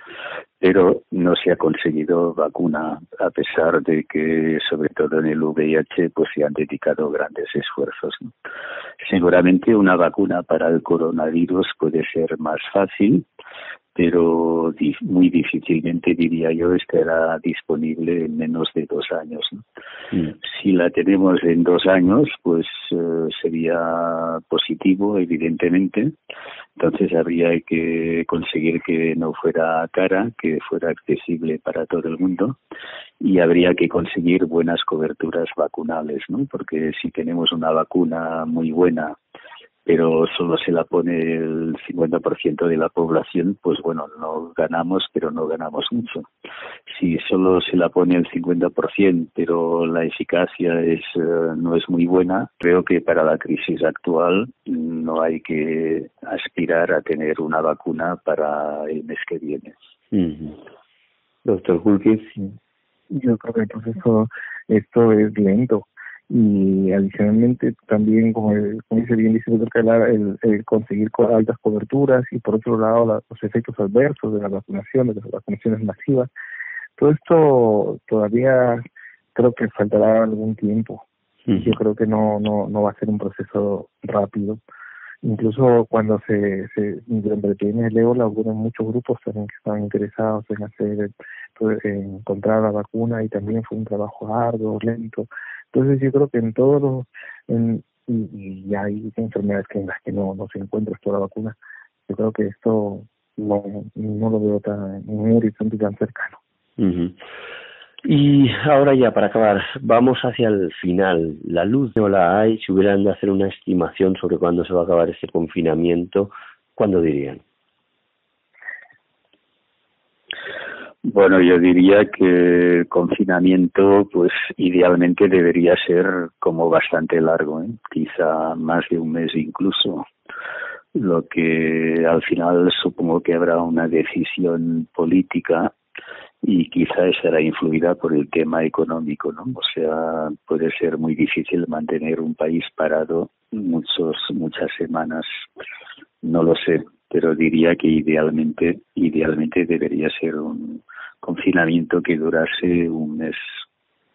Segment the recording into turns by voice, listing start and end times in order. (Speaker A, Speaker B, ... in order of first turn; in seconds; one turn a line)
Speaker A: 0.6-8.3
Speaker A: 9.0-13.2
Speaker A: 13.9-19.6
Speaker A: 20.4-26.1
Speaker A: 26.8-32.6
Speaker A: 33.2-39.1
Speaker A: 39.9-46.3
Speaker A: 46.9-59.7
Speaker B: 60.1-60.6
Speaker B: 61.4-62.3
Speaker C: 63.1-76.3
Speaker C: 77.0-78.8
Speaker C: 79.3-84.6
Speaker B: 81.5-81.7
Speaker C: 85.2-101.5
Speaker C: 102.1-106.4
Speaker B: 106.8-107.2
Speaker B: 108.0-117.4
Speaker A: 121.0-130.1
Speaker A: 130.9-135.7
Speaker A: 136.4-145.3
Speaker A: 146.2-153.6